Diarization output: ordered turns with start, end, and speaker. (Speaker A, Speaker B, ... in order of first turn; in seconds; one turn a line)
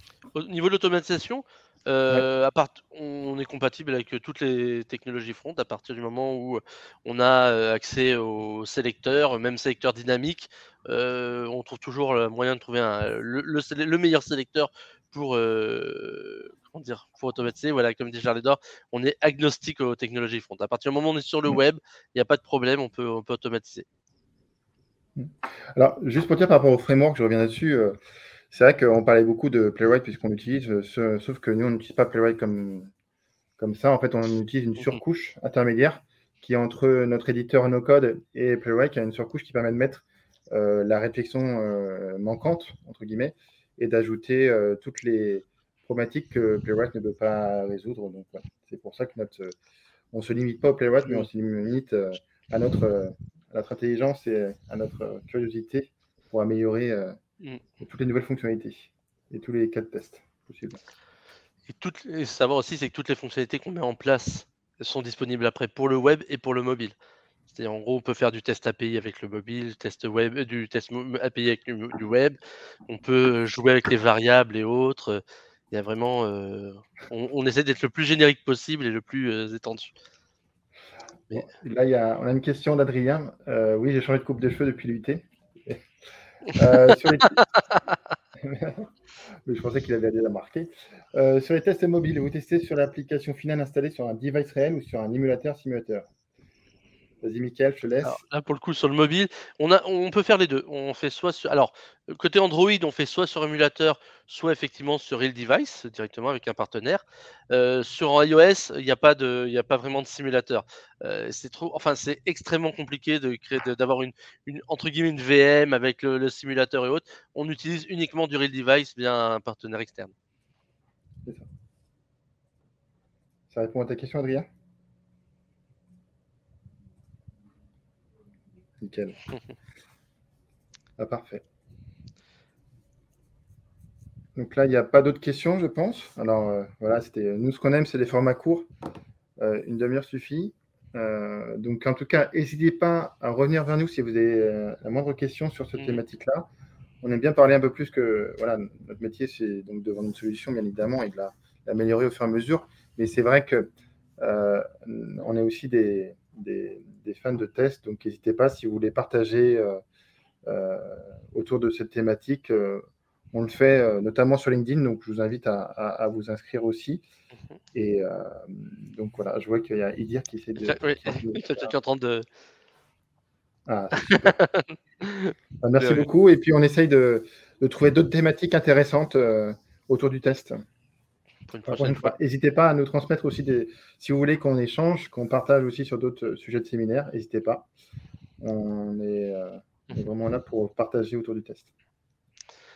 Speaker A: 0.3-23.9
Speaker B: 25.1-28.0
Speaker B: 28.5-32.9
Speaker B: 33.6-49.5
Speaker B: 50.1-57.1
Speaker B: 57.8-60.8
Speaker A: 61.7-66.9
Speaker A: 67.5-72.4
Speaker A: 72.9-79.9
Speaker B: 81.3-85.8
Speaker B: 86.5-87.4
Speaker A: 87.4-87.8
Speaker B: 88.4-88.9
Speaker B: 89.5-96.1
Speaker B: 97.2-98.2
Speaker A: 98.0-120.1
Speaker B: 123.5-124.5
Speaker B: 128.8-129.2
Speaker B: 131.0-131.4
Speaker B: 134.3-138.7
Speaker B: 139.4-146.5
Speaker B: 147.0-159.8
Speaker B: 160.4-167.0
Speaker B: 167.7-171.7
Speaker A: 170.6-172.2
Speaker B: 173.7-174.3
Speaker A: 174.0-176.1
Speaker B: 175.6-180.6
Speaker A: 181.5-182.1
Speaker B: 181.7-187.7
Speaker B: 188.4-191.7